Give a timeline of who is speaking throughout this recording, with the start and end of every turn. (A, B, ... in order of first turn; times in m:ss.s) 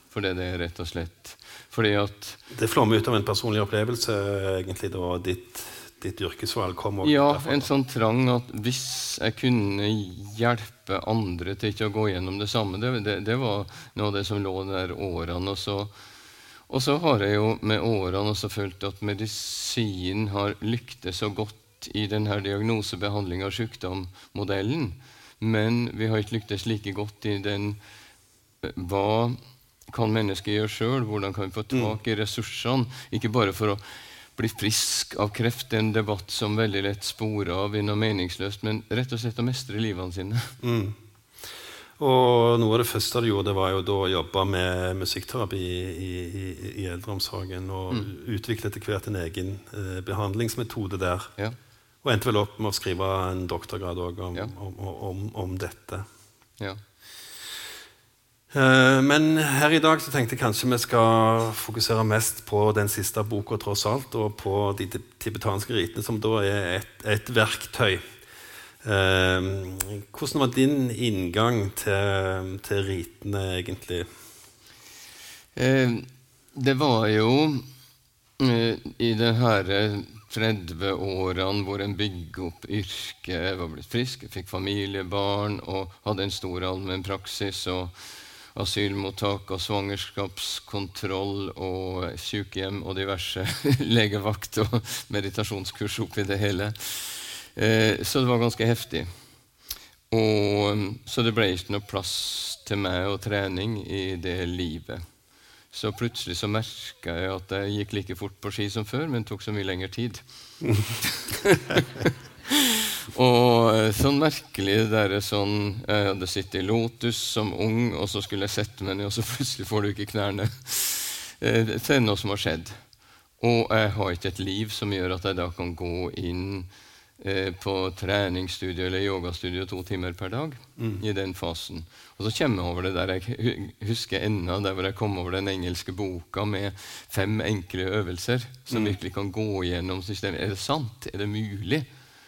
0:00.1-0:02.4 A
0:02.5-0:07.7 B
0:07.0-0:15.9 A
0:16.7-0:27.8 A
0:28.6-0:29.4 A
0:29.9-0:33.8 A
0:34.3-0:40.5 A
0:40.6-0:41.0 B
0:42.0-0:51.3 B
0:52.0-0:56.0 B
0:58.5-1:08.0 B
1:08.8-1:14.1 B
1:15.5-1:17.6 A
1:18.4-1:27.9 A
1:28.5-1:39.1 A
1:40.1-1:45.0 A
1:45.7-1:50.2 A
1:51.0-2:02.8 A
2:03.4-2:06.7 A
2:07.2-2:21.9 A
2:18.7-2:19.0 B